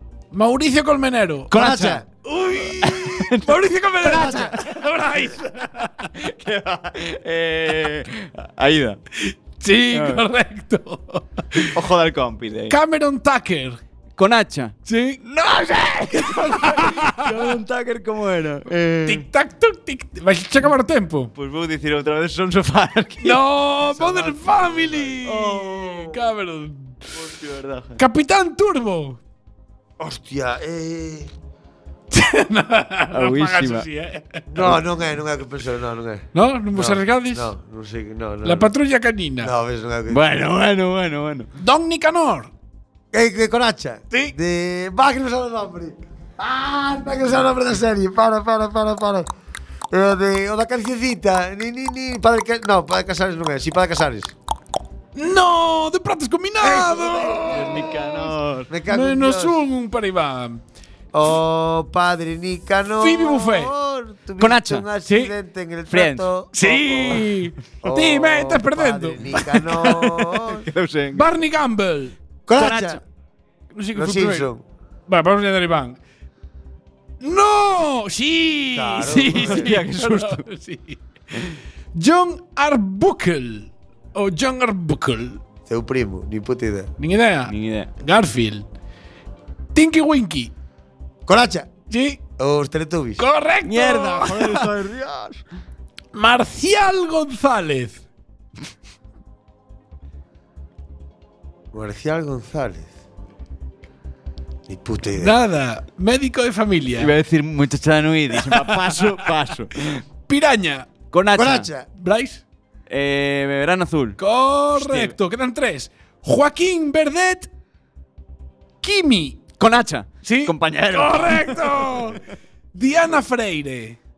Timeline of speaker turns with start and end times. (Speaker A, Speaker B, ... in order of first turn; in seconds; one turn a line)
Speaker A: 0.3-1.7
Speaker B: 1.5-4.4
Speaker C: 1.5-2.0
Speaker A: 2.2-6.1
Speaker C: 4.0-4.5
Speaker B: 6.2-9.0
Speaker A: 9.2-11.8
Speaker B: 9.9-10.2
Speaker B: 11.7-12.8
Speaker A: 12.7-13.8
Speaker B: 14.2-19.2
Speaker A: 14.9-15.2
Speaker A: 16.1-17.5
Speaker A: 19.0-21.3
Speaker B: 21.3-23.4
Speaker A: 23.2-27.0
Speaker C: 23.9-25.2
Speaker B: 25.2-26.2
Speaker B: 27.1-28.0
Speaker A: 28.0-29.2
Speaker C: 30.0-31.3
Speaker A: 32.1-34.7
Speaker B: 33.1-33.9
Speaker C: 34.5-38.7
Speaker A: 36.3-37.5
Speaker A: 38.4-39.5
Speaker C: 39.4-40.2
Speaker B: 40.1-41.5
Speaker A: 41.6-42.5
Speaker C: 43.1-49.3
Speaker C: 49.9-54.3
Speaker A: 55.1-58.3
Speaker C: 56.6-57.8
Speaker B: 57.5-58.7
Speaker C: 58.7-59.6
Speaker A: 58.9-60.6
Speaker C: 61.1-67.2
Speaker A: 63.0-63.7
Speaker B: 64.4-64.9
Speaker A: 65.1-65.3
Speaker B: 65.9-66.3
Speaker A: 66.5-70.2
Speaker C: 67.8-70.7
Speaker B: 70.5-71.3
Speaker A: 71.1-72.2
Speaker C: 72.5-73.0
Speaker B: 72.5-73.0
Speaker A: 73.8-74.5
Speaker C: 73.9-74.6
Speaker A: 75.1-76.0
Speaker A: 77.2-85.4
Speaker C: 78.7-79.7
Speaker B: 79.3-80.4
Speaker C: 85.7-86.9
Speaker A: 87.0-88.7
Speaker B: 87.5-87.9
Speaker A: 89.7-90.5
Speaker C: 91.2-91.7
Speaker A: 91.9-92.2
Speaker C: 92.4-93.2
Speaker A: 93.2-94.7
Speaker B: 93.6-95.4
Speaker A: 96.1-98.0
Speaker C: 101.7-102.9
Speaker C: 104.7-105.4
Speaker A: 105.2-107.1
Speaker B: 107.0-110.0
Speaker A: 108.4-109.2
Speaker A: 110.3-110.9
Speaker B: 111.1-111.7
Speaker C: 111.3-111.9
Speaker A: 112.0-112.4
Speaker B: 112.9-114.2
Speaker A: 114.2-117.5
Speaker B: 114.7-115.1
Speaker A: 118.8-119.5
Speaker B: 119.6-122.0
Speaker A: 120.2-122.2
Speaker A: 122.7-124.0